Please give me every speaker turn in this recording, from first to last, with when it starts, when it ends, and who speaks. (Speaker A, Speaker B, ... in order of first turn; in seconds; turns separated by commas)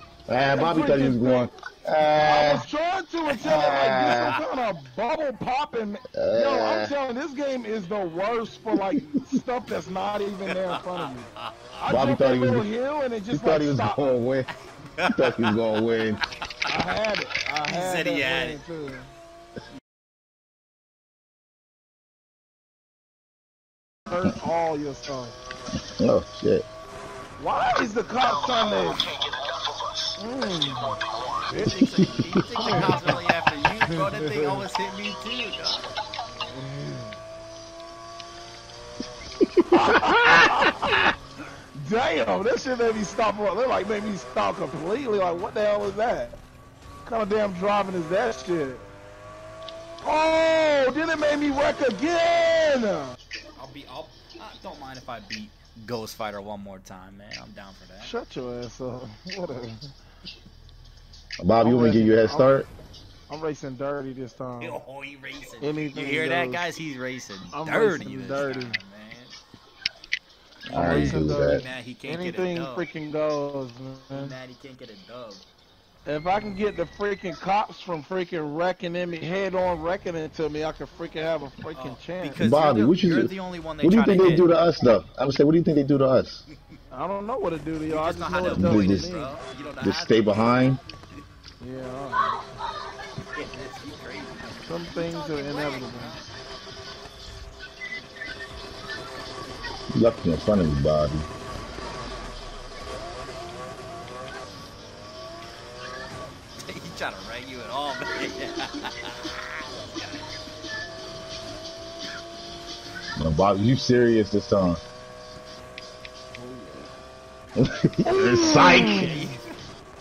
Speaker A: 0.3-2.7, Speaker B: 0.5-1.5, Speaker B: 2.2-14.1, Speaker A: 3.4-4.4, Speaker C: 3.6-4.3, Speaker A: 6.2-7.0, Speaker A: 8.7-9.0, Speaker C: 10.5-11.5, Speaker A: 11.9-12.7, Speaker A: 13.3-14.5, Speaker C: 14.7-15.9, Speaker A: 15.1-16.2, Speaker B: 16.7-19.1, Speaker C: 17.6-18.6, Speaker B: 24.1-25.4, Speaker A: 25.9-26.6, Speaker B: 27.4-29.1, Speaker B: 30.2-31.8, Speaker C: 31.5-35.9, Speaker A: 31.9-32.9, Speaker B: 32.6-33.0, Speaker B: 33.9-34.6, Speaker B: 36.3-37.2, Speaker A: 39.4-41.0, Speaker B: 39.7-41.1, Speaker B: 41.8-46.4, Speaker B: 47.0-48.9, Speaker B: 50.0-53.2, Speaker C: 53.6-58.1, Speaker B: 58.0-59.9, Speaker A: 61.4-62.7, Speaker B: 61.6-62.6, Speaker B: 63.3-64.8, Speaker C: 64.6-69.4, Speaker B: 65.6-66.7, Speaker B: 67.5-68.8, Speaker C: 70.7-72.9, Speaker B: 70.7-74.3, Speaker A: 70.7-71.7, Speaker C: 74.1-75.5, Speaker B: 76.1-82.4, Speaker C: 81.7-84.5, Speaker A: 82.4-86.4, Speaker B: 86.9-89.3, Speaker C: 87.9-91.2, Speaker A: 88.6-89.1, Speaker A: 89.8-90.8, Speaker B: 91.6-92.4, Speaker C: 93.3-96.3, Speaker B: 94.7-96.2, Speaker A: 99.9-101.3, Speaker C: 106.7-110.3, Speaker A: 113.2-114.8, Speaker B: 116.3-116.9, Speaker A: 117.6-119.2, Speaker B: 118.1-119.2, Speaker C: 118.8-119.4